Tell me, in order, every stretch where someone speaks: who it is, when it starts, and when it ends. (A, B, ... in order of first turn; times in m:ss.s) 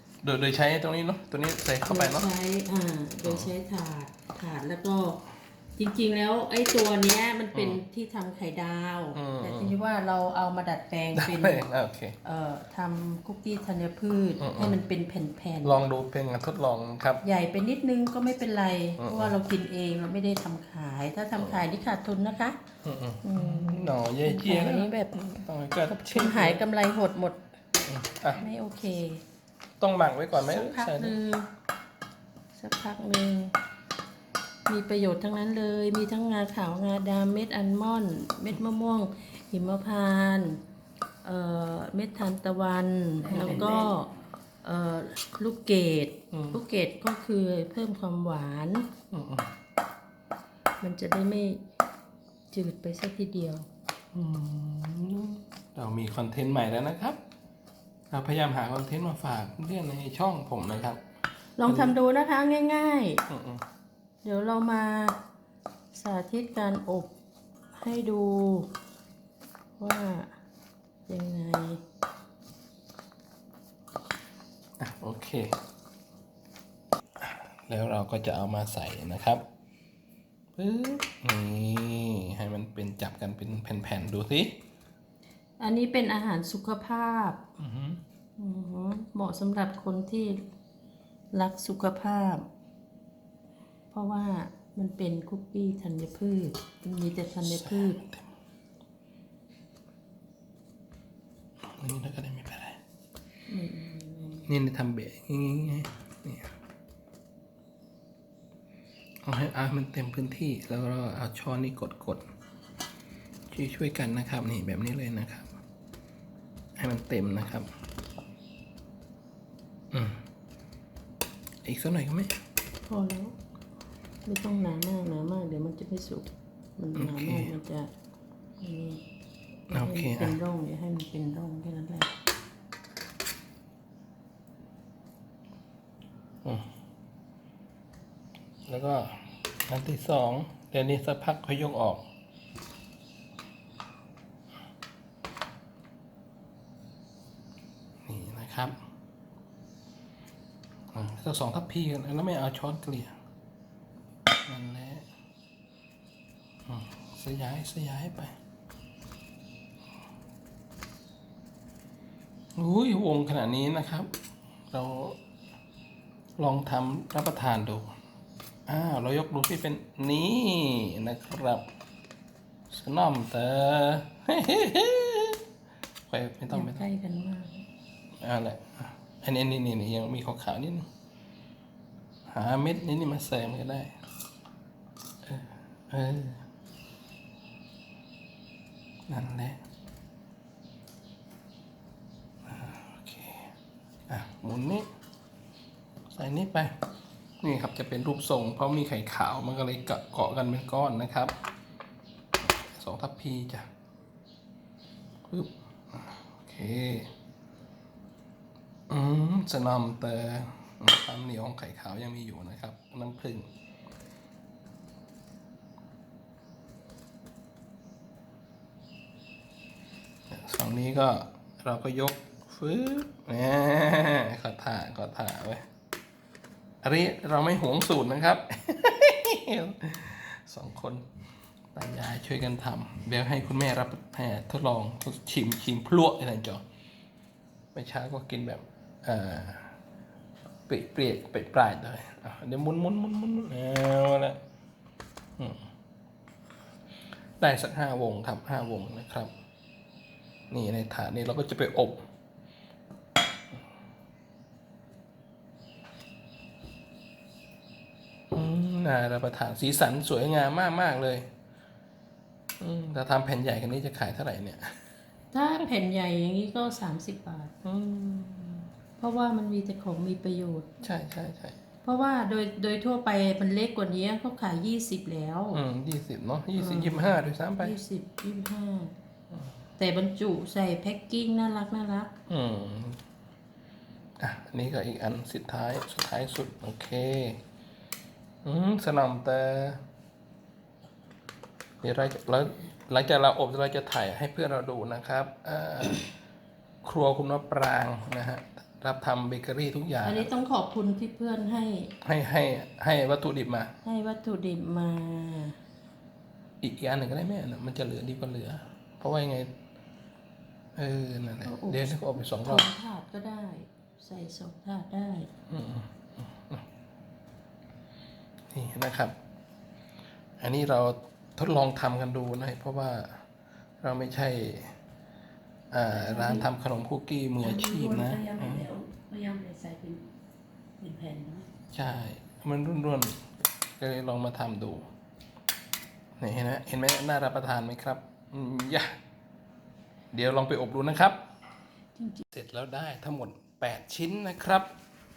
0:00.2-0:02.3 A
0:01.9-0:05.2 B
0:03.2-0:03.5 A
0:05.8-0:11.7 B
0:07.5-0:07.8 A
0:09.1-0:09.8 A
0:11.2-0:12.2 A
0:12.2-0:15.8 B
0:14.4-0:14.8 A
0:15.6-0:17.2 A
0:17.2-0:22.6 B
0:19.0-0:19.4 A
0:21.4-0:21.6 A
0:22.8-0:26.6 A
0:23.2-0:25.4 B
0:26.1-0:27.4 B
0:27.9-0:28.4 A
0:28.4-0:29.2 B
0:29.8-0:31.2 A
0:30.4-0:31.5 B
0:32.6-0:33.5 B
0:34.7-0:40.6 B
0:41.2-0:44.1 B
0:44.6-0:48.9 B
0:46.3-0:46.6 A
0:49.1-0:49.5 A
0:50.8-0:51.6 B
0:52.5-0:53.7 B
0:54.1-0:57.2 A
0:58.1-1:01.0 A
1:01.6-1:03.2 B
1:01.7-1:02.0 A
1:03.3-1:03.6 A
1:04.2-1:05.2 B
1:05.9-1:07.1 B
1:07.8-1:08.7 B
1:09.8-1:10.4 B
1:11.1-1:11.8 B
1:14.8-1:15.6 A
1:17.2-1:19.4 A
1:20.6-1:24.6 A
1:25.6-1:27.4 B
1:27.6-1:28.0 A
1:28.4-1:30.4 B
1:31.3-1:32.4 B
1:33.9-1:38.0 B
1:37.4-1:38.3 A
1:41.6-1:42.8 A
1:43.5-1:44.5 B
1:44.5-1:46.5 A
1:49.2-1:52.2 A
1:53.5-1:55.6 A
1:56.8-1:57.7 A
1:59.9-2:00.2 A
2:01.6-2:02.3 A
2:02.9-2:03.3 B
2:04.3-2:07.9 B
2:07.0-2:07.5 A
2:08.6-2:09.0 B
2:09.7-2:10.4 A
2:09.7-2:12.1 B
2:18.7-2:22.0 A
2:28.1-2:28.8 A
2:30.9-2:33.2 A
2:34.5-2:35.1 A
2:36.7-2:38.3 A
2:42.6-2:44.1 A
2:44.7-2:45.2 A
2:46.4-2:47.9 A
2:48.7-2:51.6 A
2:52.7-2:55.4 A
2:56.1-2:56.8 A
2:56.5-2:57.7 B
2:58.2-3:00.9 A
3:02.3-3:04.0 A
3:05.2-3:06.4 A
3:09.1-3:09.6 A
3:12.4-3:13.5 A
3:14.1-3:14.8 A
3:16.1-3:16.7 A
3:17.4-3:21.3 A
3:22.4-3:23.7 A
3:25.3-3:27.1 A
3:28.9-3:33.5 A
3:40.3-3:45.6 A
3:46.8-3:51.0 A
3:51.7-3:56.6 A
3:57.7-3:59.8 A
4:00.7-4:04.4 A
4:05.4-4:05.6 A
4:07.4-4:09.3 A
4:10.5-4:12.0 A
4:18.3-4:21.3 A
4:22.6-4:24.8 A
4:25.3-4:27.5 B
4:27.6-4:28.7 A
4:29.0-4:30.9 B
4:30.8-4:31.6 A
4:31.8-4:35.6 B
4:35.5-4:37.8 A
4:36.6-4:38.9 B
4:39.8-4:42.1 B
4:42.3-4:43.0 A
4:44.2-4:47.4 A
4:48.4-4:49.8 A
4:51.8-4:56.1 A
4:56.8-5:00.3 A
5:00.0-5:01.9 B
5:02.0-5:03.7 A
5:03.8-5:05.6 B
5:06.6-5:09.5 A
5:10.8-5:12.7 A
5:11.5-5:15.3 B
5:15.5-5:16.6 A
5:18.5-5:19.2 A
5:20.4-5:23.2 A
5:23.8-5:24.8 A
5:25.7-5:28.7 A
5:26.0-5:26.5 B
5:27.4-5:30.0 B
5:30.8-5:31.4 B
5:31.7-5:34.8 A
5:36.2-5:39.0 A
5:40.1-5:41.2 A
5:42.0-5:42.2 B
5:42.3-5:44.7 A